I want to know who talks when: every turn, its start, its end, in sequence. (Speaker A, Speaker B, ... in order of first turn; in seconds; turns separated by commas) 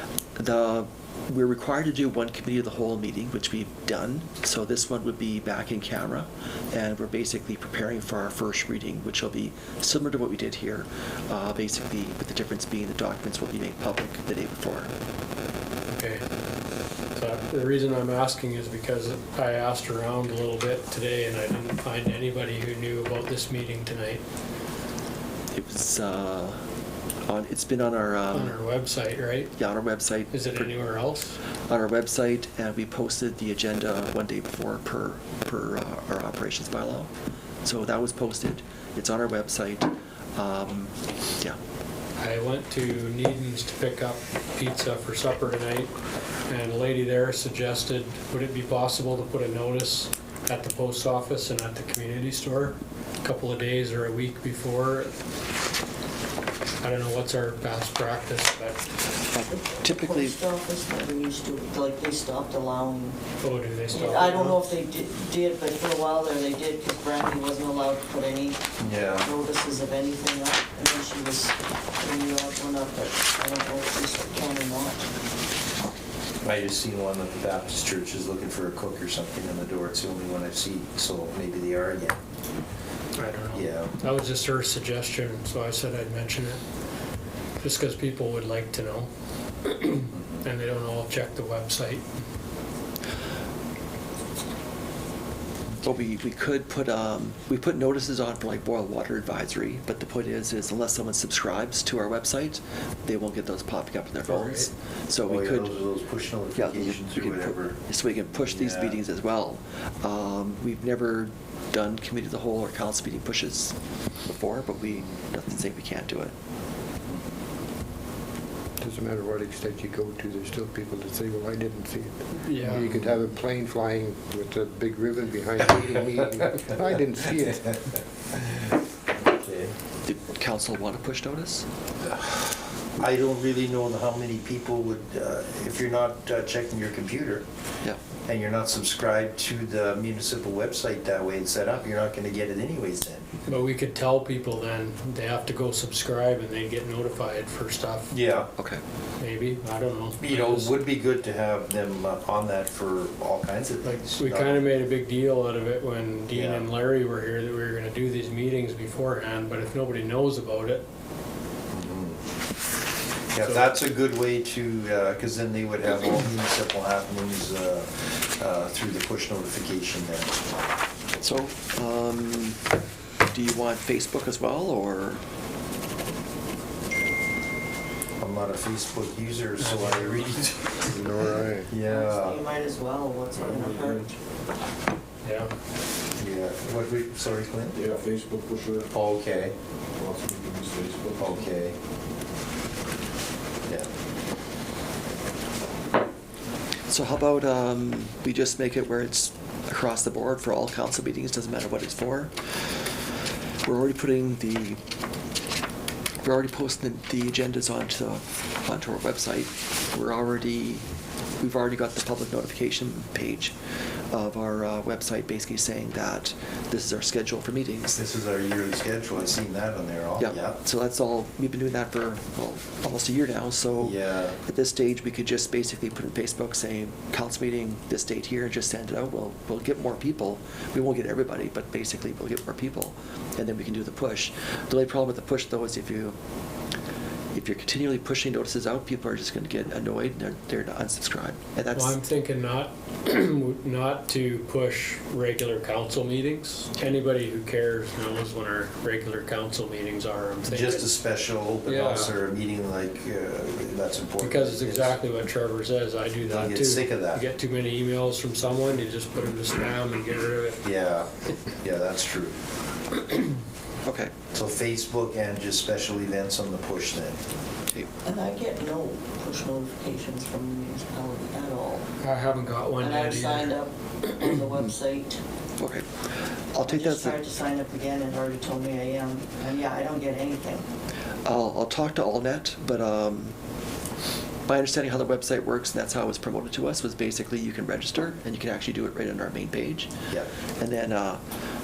Speaker A: 0.4-14.9, Speaker B: 15.9-16.2, Speaker B: 17.1-24.2, Speaker A: 25.5-26.6, Speaker A: 27.3-28.6, Speaker B: 28.3-29.5, Speaker A: 29.6-30.9, Speaker B: 30.3-31.4, Speaker A: 31.7-37.1, Speaker A: 37.6-41.6, Speaker B: 42.2-45.9, Speaker B: 46.5-55.1, Speaker B: 56.8-58.8, Speaker A: 59.3-60.4, Speaker C: 59.7-63.2, Speaker B: 63.4-64.6, Speaker C: 63.9-75.1, Speaker D: 68.8-69.3, Speaker D: 76.4-82.2, Speaker B: 83.2-86.6, Speaker D: 83.5-83.9, Speaker B: 87.6-89.1, Speaker B: 89.6-92.1, Speaker A: 95.8-105.8, Speaker B: 104.2-104.7, Speaker D: 105.2-107.8, Speaker A: 106.5-113.7, Speaker D: 108.3-109.0, Speaker A: 114.2-116.3, Speaker E: 118.8-128.0, Speaker B: 122.4-123.0, Speaker D: 129.2-129.7, Speaker A: 130.0-131.7, Speaker D: 132.1-132.4, Speaker D: 133.0-137.4, Speaker D: 138.2-143.3, Speaker B: 143.5-148.1, Speaker D: 148.1-148.5, Speaker B: 149.2-150.7, Speaker D: 150.2-154.6, Speaker B: 153.8-160.8, Speaker D: 156.3-156.7, Speaker D: 161.7-162.2, Speaker D: 163.3-170.3, Speaker A: 171.2-172.6, Speaker A: 173.3-175.2, Speaker D: 178.2-182.4, Speaker B: 179.6-180.9, Speaker E: 180.9-181.7, Speaker C: 181.8-184.1, Speaker F: 183.4-184.1, Speaker B: 185.2-185.5, Speaker D: 186.2-187.8, Speaker F: 187.7-188.9, Speaker D: 188.9-189.5, Speaker F: 189.9-191.4, Speaker D: 191.2-191.8, Speaker A: 196.9-202.3, Speaker A: 203.6-204.8, Speaker A: 206.2-210.8, Speaker A: 211.4-213.5, Speaker A: 214.1-218.0, Speaker D: 217.9-220.6, Speaker A: 220.2-236.2, Speaker D: 223.8-224.3, Speaker A: 237.3-242.0, Speaker B: 241.7-250.9, Speaker D: 250.4-254.9, Speaker B: 251.6-252.1, Speaker B: 254.2-260.6, Speaker D: 256.3-257.2, Speaker D: 260.6-262.3, Speaker A: 263.8-264.1, Speaker D: 264.3-267.2, Speaker C: 268.0-271.9, Speaker B: 272.0-273.5, Speaker C: 272.8-275.2, Speaker A: 275.6-275.9, Speaker A: 276.5-277.2, Speaker C: 276.6-280.6, Speaker A: 281.2-283.4, Speaker A: 284.4-289.9, Speaker A: 290.6-291.2